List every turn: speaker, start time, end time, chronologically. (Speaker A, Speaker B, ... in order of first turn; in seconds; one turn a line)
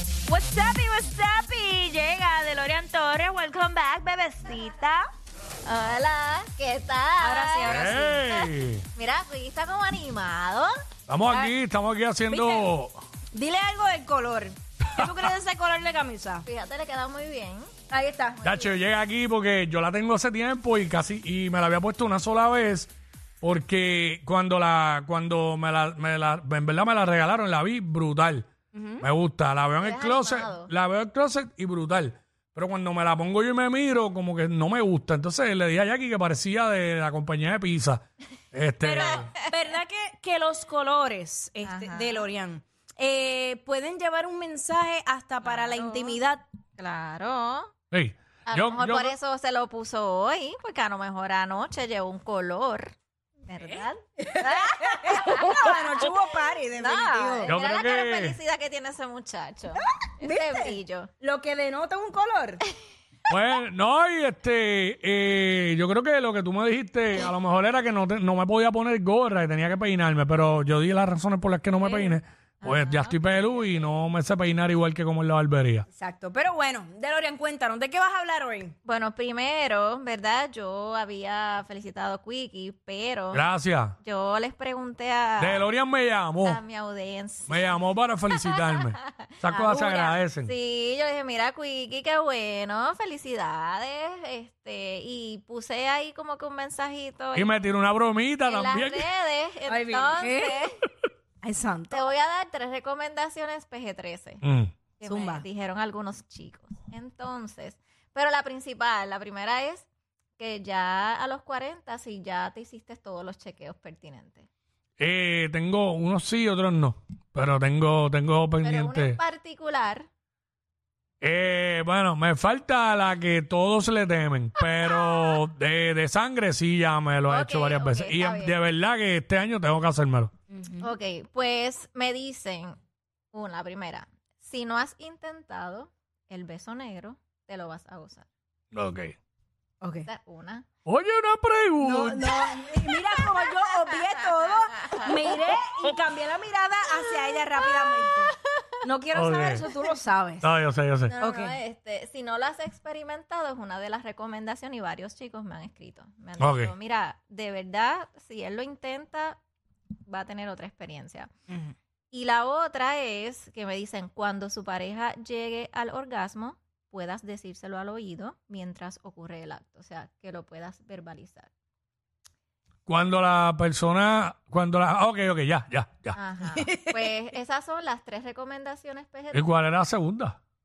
Speaker A: 0.3-5.1
Speaker B: 5.6-10.7
Speaker A: 7.2-8.2
Speaker C: 7.7-8.8
Speaker C: 11.1-13.0
Speaker B: 11.3-11.5
Speaker A: 12.3-12.7
Speaker A: 13.3-16.4
Speaker B: 16.4-17.7
Speaker A: 17.9-18.5
Speaker C: 18.4-28.5
Speaker A: 28.7-29.1
Speaker C: 29.0-39.3
Speaker B: 29.8-30.7
Speaker A: 38.8-46.4
Speaker B: 41.6-42.3
Speaker B: 45.4-46.2
Speaker B: 46.8-47.7
Speaker C: 47.9-49.1
Speaker B: 48.5-53.0
Speaker B: 53.5-55.7
Speaker A: 54.2-57.5
Speaker B: 56.8-61.1
Speaker C: 57.5-58.4
Speaker A: 60.0-62.6
Speaker C: 63.3-75.8
Speaker A: 71.8-72.1
Speaker B: 72.6-73.6
Speaker A: 75.9-78.7
Speaker B: 78.8-83.4
Speaker C: 83.3-84.0
Speaker B: 84.0-85.7
Speaker C: 85.4-86.6
Speaker B: 86.4-87.7
Speaker C: 87.5-90.5
Speaker B: 88.5-88.8
Speaker B: 89.5-97.6
Speaker C: 97.3-99.1
Speaker B: 98.5-100.8
Speaker A: 99.7-100.6
Speaker A: 101.4-102.0
Speaker B: 101.9-104.4
Speaker C: 104.4-104.7
Speaker B: 105.0-109.9
Speaker A: 105.0-105.4
Speaker B: 110.4-114.5
Speaker C: 115.0-119.2
Speaker B: 118.6-120.1
Speaker C: 121.2-130.3
Speaker B: 127.3-128.5
Speaker A: 130.5-130.9
Speaker B: 130.8-132.8
Speaker B: 133.3-138.3
Speaker C: 138.7-139.2
Speaker A: 139.8-140.1
Speaker B: 140.0-140.7
Speaker C: 140.8-142.5
Speaker A: 141.8-150.5
Speaker B: 142.8-143.4
Speaker B: 144.8-145.4
Speaker B: 147.5-148.8
Speaker C: 149.1-149.6
Speaker C: 150.4-151.1
Speaker B: 151.1-159.4
Speaker A: 151.2-151.6
Speaker C: 156.4-156.7
Speaker B: 160.1-161.3
Speaker A: 161.5-161.7
Speaker B: 162.1-171.5
Speaker C: 172.9-176.2
Speaker B: 176.1-179.5
Speaker A: 176.6-177.1
Speaker C: 179.3-180.4